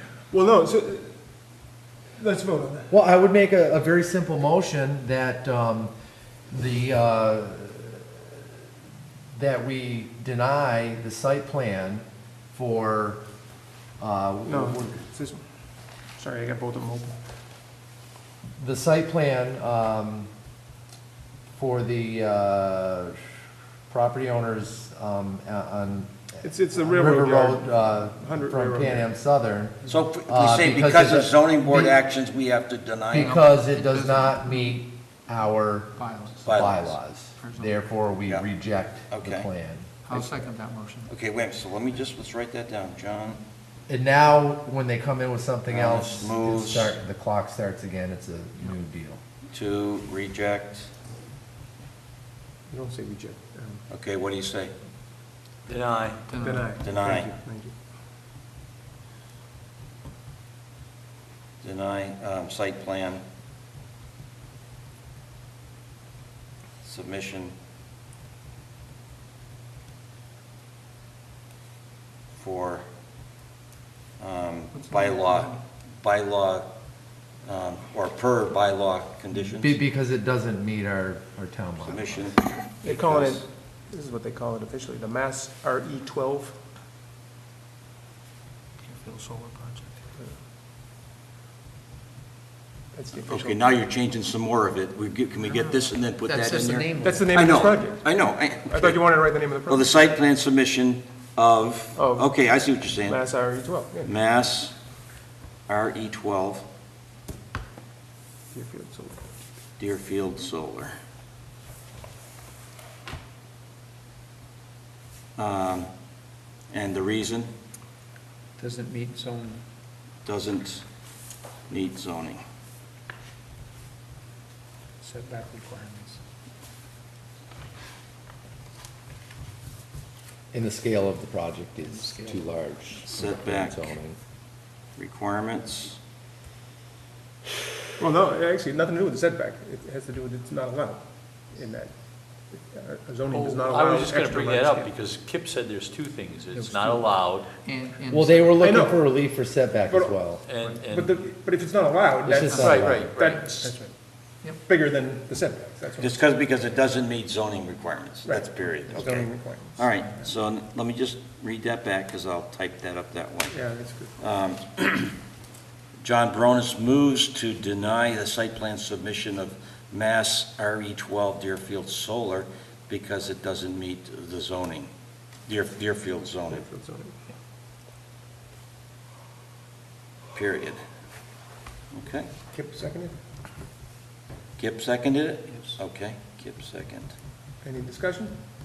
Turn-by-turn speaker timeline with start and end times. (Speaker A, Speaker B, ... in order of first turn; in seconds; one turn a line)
Speaker A: 0.3-1.1
Speaker A: 2.2-2.9
Speaker B: 2.9-5.9
Speaker B: 6.5-8.1
Speaker B: 9.4-13.2
Speaker B: 14.0-15.0
Speaker A: 14.5-15.4
Speaker A: 16.2-17.2
Speaker B: 18.6-20.3
Speaker B: 21.6-23.2
Speaker B: 23.9-32.0
Speaker A: 26.4-29.1
Speaker C: 29.9-33.4
Speaker D: 33.1-34.8
Speaker B: 33.1-35.9
Speaker D: 35.9-37.8
Speaker C: 36.5-37.0
Speaker B: 36.5-40.3
Speaker C: 39.1-39.5
Speaker D: 40.0-41.1
Speaker C: 41.1-43.4
Speaker B: 43.9-49.2
Speaker C: 45.7-47.0
Speaker C: 49.5-50.9
Speaker A: 52.7-53.8
Speaker C: 53.9-54.7
Speaker E: 55.7-56.3
Speaker D: 56.3-56.8
Speaker A: 56.4-57.7
Speaker C: 56.8-57.3
Speaker C: 61.6-63.2
Speaker C: 66.8-67.5
Speaker C: 72.3-72.9
Speaker C: 74.2-76.7
Speaker D: 74.7-75.6
Speaker C: 77.5-79.8
Speaker B: 79.6-82.3
Speaker C: 81.8-83.4
Speaker A: 82.8-86.5
Speaker D: 88.8-90.0
Speaker A: 92.9-93.7
Speaker C: 93.2-103.2
Speaker D: 95.5-97.4
Speaker A: 97.0-100.0
Speaker A: 102.0-102.3
Speaker A: 103.0-104.2
Speaker C: 104.0-104.8
Speaker C: 105.7-106.7
Speaker A: 108.5-109.2
Speaker C: 109.8-111.0
Speaker C: 115.4-115.9
Speaker C: 116.7-117.5
Speaker D: 118.6-119.6
Speaker C: 120.2-120.8
Speaker C: 121.7-122.4
Speaker D: 125.0-126.2
Speaker B: 130.5-134.2
Speaker D: 131.8-132.6
Speaker C: 133.1-133.9
Speaker C: 135.0-136.0
Speaker A: 138.0-141.9
Speaker A: 142.5-144.9
Speaker E: 143.3-147.5
Speaker D: 146.5-148.6
Speaker B: 148.1-150.4
Speaker A: 148.6-149.0
Speaker A: 149.9-153.9
Speaker E: 150.4-151.2
Speaker B: 152.2-153.1
Speaker D: 152.4-152.8
Speaker E: 152.6-153.5
Speaker A: 154.7-156.3
Speaker C: 156.0-163.6
Speaker A: 158.2-160.3
Speaker A: 163.5-164.1
Speaker C: 164.2-165.2
Speaker C: 166.0-174.9
Speaker C: 175.5-176.6
Speaker A: 176.5-177.2
Speaker C: 180.3-180.8
Speaker C: 181.9-182.3
Speaker A: 182.5-183.1
Speaker C: 184.6-187.1
Speaker D: 185.5-185.8
Speaker A: 187.6-188.3